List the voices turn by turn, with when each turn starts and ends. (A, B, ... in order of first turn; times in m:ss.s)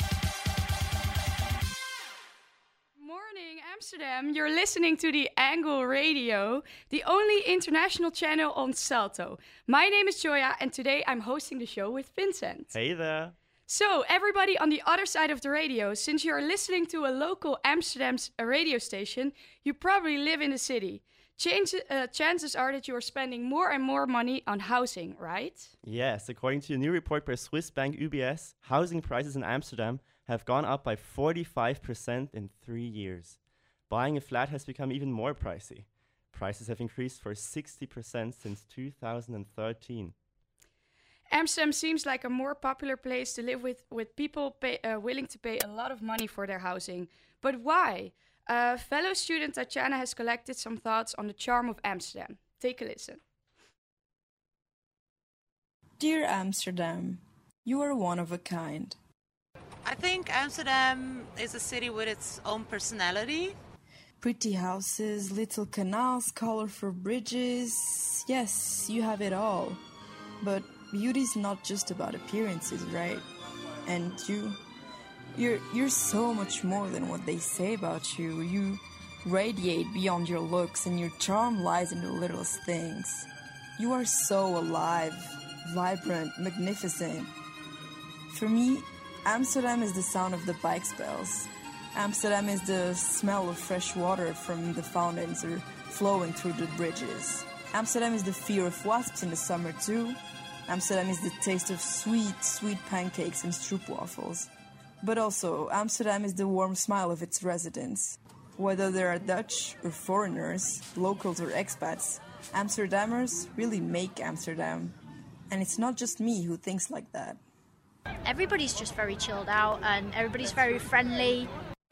0:03.0-0:12.7 A
0:12.7-0:13.4 B
0:13.7-0:25.7 A
0:25.8-0:33.4 B
0:33.9-0:40.1 B
0:41.3-0:53.2 A
0:56.0-0:59.0 C
0:59.8-1:03.6 D
1:04.2-1:09.8 C
1:10.4-1:13.3 C
1:13.8-1:14.6 C
1:15.4-1:27.3 C
1:28.3-1:44.5 C
1:45.0-1:55.0 C
1:55.5-1:57.4 C
1:58.2-2:01.5 E